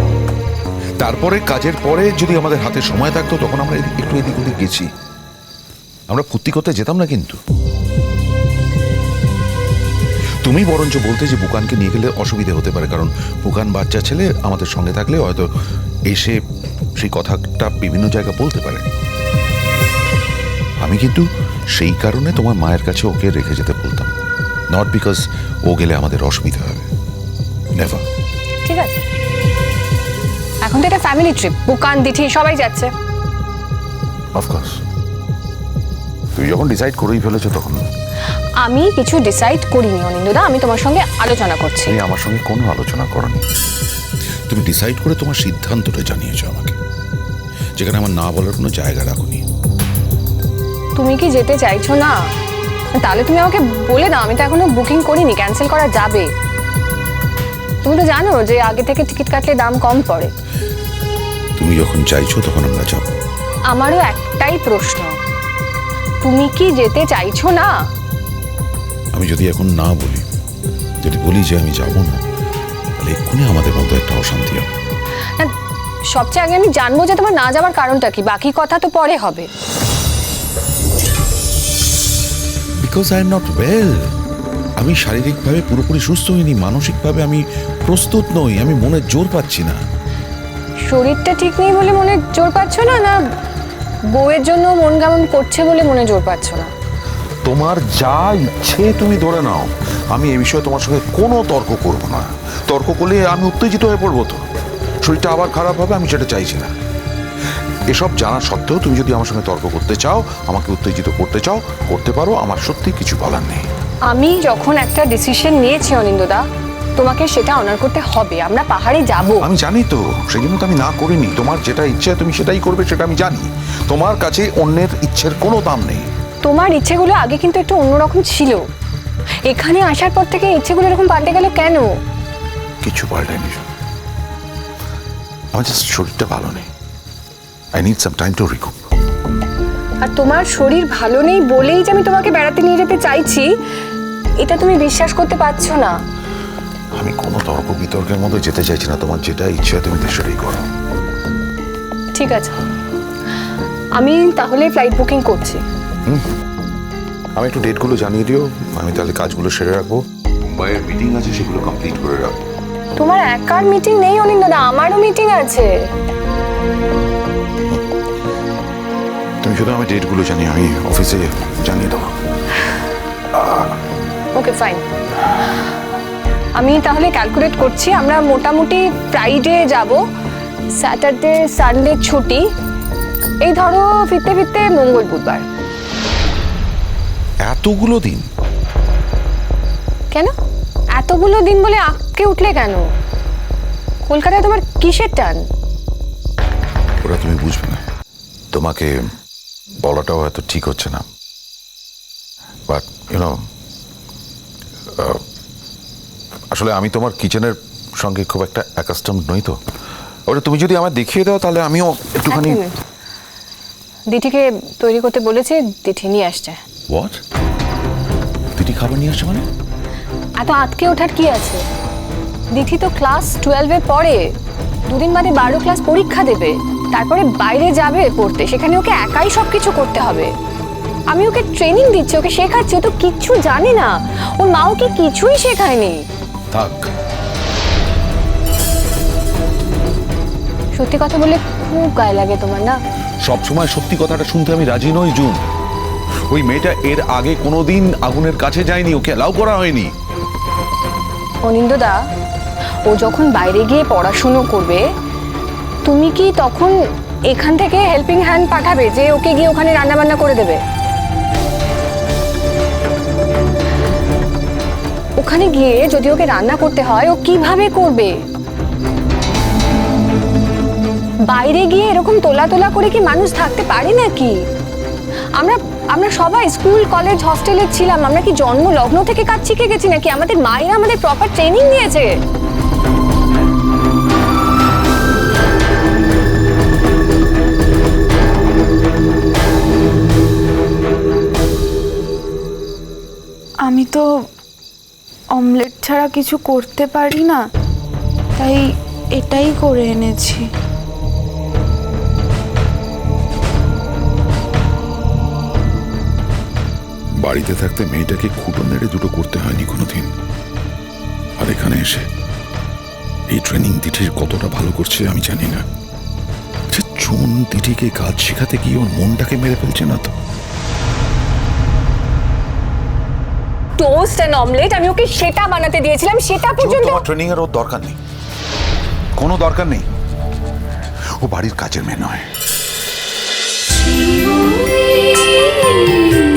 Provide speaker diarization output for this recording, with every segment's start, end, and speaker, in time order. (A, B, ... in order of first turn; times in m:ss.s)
0:01.0-0:04.9 A
0:06.1-0:07.4 A
0:10.4-0:15.5 A
0:16.1-0:16.4 A
0:17.0-0:18.8 A
0:20.8-0:24.1 A
0:24.7-0:26.9 A
0:27.8-0:28.0 A
0:28.6-0:29.0 B
0:30.6-0:32.9 B
0:34.4-0:34.8 A
0:36.4-0:37.8 A
0:38.6-0:41.9 B
0:41.8-0:43.4 A
0:44.5-0:46.8 A
0:47.8-0:49.4 A
0:51.0-0:52.2 B
0:53.0-0:56.3 B
0:57.8-1:00.3 B
1:01.6-1:03.1 A
1:03.7-1:05.1 B
1:06.2-1:07.7 B
1:09.1-1:10.2 A
1:11.0-1:12.2 A
1:13.0-1:14.7 A
1:16.1-1:19.5 B
1:22.8-1:24.0 A
1:24.8-1:29.8 A
1:30.9-1:33.1 B
1:34.1-1:36.7 B
1:37.4-1:44.4 A
1:45.0-1:46.7 A
1:47.9-1:53.6 A
1:54.1-1:56.4 B
1:57.0-1:59.4 B
1:59.4-2:06.1 A
2:06.4-2:08.6 B
2:09.5-2:11.9 B
2:12.8-2:13.6 A
2:15.5-2:16.7 A
2:17.7-2:18.7 A
2:20.0-2:23.5 B
2:24.4-2:25.9 B
2:27.0-2:30.7 A
2:32.1-2:32.5 B
2:34.0-2:35.6 B
2:37.4-2:42.3 A
2:43.0-2:45.7 B
2:49.4-2:52.1 A
2:54.4-2:54.8 B
2:56.6-3:00.0 B
3:00.8-3:02.4 B
3:03.4-3:05.4 B
3:07.4-3:08.2 A
3:11.0-3:12.8 B
3:14.0-3:15.4 B
3:17.0-3:17.8 A
3:18.5-3:18.9 A
3:19.8-3:21.0 A
3:22.7-3:23.4 A
3:25.0-3:25.2 A
3:26.5-3:29.6 A
3:30.3-3:32.6 A
3:32.3-3:32.8 B
3:34.1-3:36.6 B
3:36.9-3:37.2 A
3:38.6-3:39.4 A
3:40.4-3:41.6 B
3:42.5-3:44.2 B
3:44.9-3:50.3 B
3:51.1-3:56.0 B
3:56.5-3:56.9 A
4:00.7-4:02.8 B
4:03.2-4:05.4 A
4:06.3-4:09.9 A
4:11.4-4:12.0 B
4:12.9-4:14.8 B
4:15.8-4:16.7 B
4:17.3-4:20.6 B
4:25.2-4:28.1 B
4:31.3-4:34.3 B
4:35.4-4:42.1 B
4:53.6-4:54.0 C
4:55.3-4:57.4 C
4:58.4-5:00.4 C
5:07.2-5:10.1 A
5:11.4-5:12.0 A
5:13.3-5:15.6 A
5:16.7-5:20.1 A
5:23.8-5:27.0 B
5:26.4-5:28.0 A
5:29.2-5:29.9 A
5:31.2-5:32.3 A